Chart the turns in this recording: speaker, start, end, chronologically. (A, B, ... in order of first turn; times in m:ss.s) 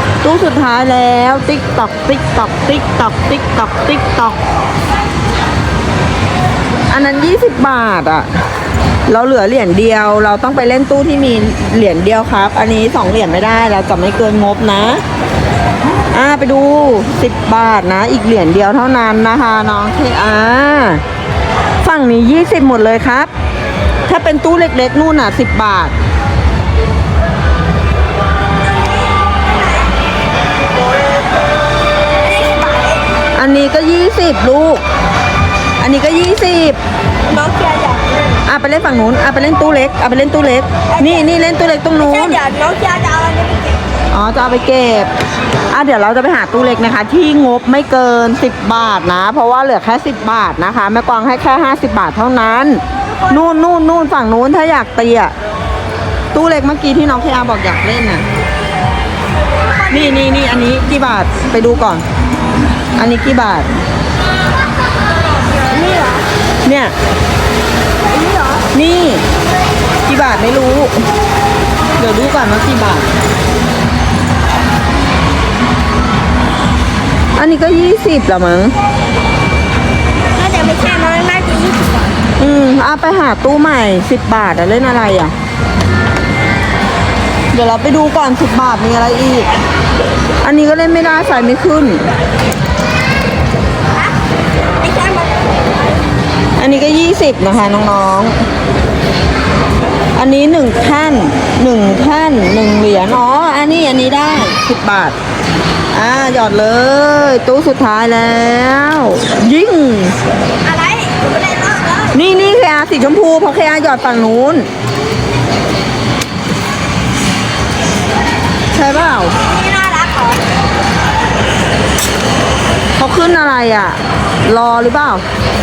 0:00.2-0:04.4 A
0:06.9-0:08.3 A
0:09.1-0:15.0 A
0:16.1-0:21.0 A
0:21.8-0:23.3 A
0:24.1-0:25.9 A
0:29.1-0:29.9 B
0:32.2-0:33.1 B
0:33.4-0:34.8 A
0:35.8-0:36.8 A
0:37.3-0:38.4 B
0:38.4-0:42.4 A
0:40.9-0:43.8 B
0:44.1-0:45.1 A
0:45.7-0:55.3 A
0:53.0-0:53.4 B
0:56.3-0:58.2 A
0:59.8-1:00.2 B
0:59.9-1:02.0 A
1:03.0-1:03.7 A
1:05.7-1:06.3 B
1:06.6-1:06.9 A
1:08.1-1:08.7 B
1:08.7-1:09.2 A
1:10.1-1:11.0 A
1:12.0-1:13.1 A
1:17.4-1:18.7 A
1:20.4-1:22.2 B
1:22.4-1:25.3 A
1:27.5-1:29.5 A
1:30.4-1:32.1 A
1:34.8-1:36.0 B
1:36.6-1:38.4 A
1:40.2-1:45.2 A
1:45.9-1:50.2 A
1:50.6-1:52.2 B
1:52.1-1:54.7 A
1:58.7-1:59.4 A
1:59.4-2:00.4 B
2:03.0-2:05.2 A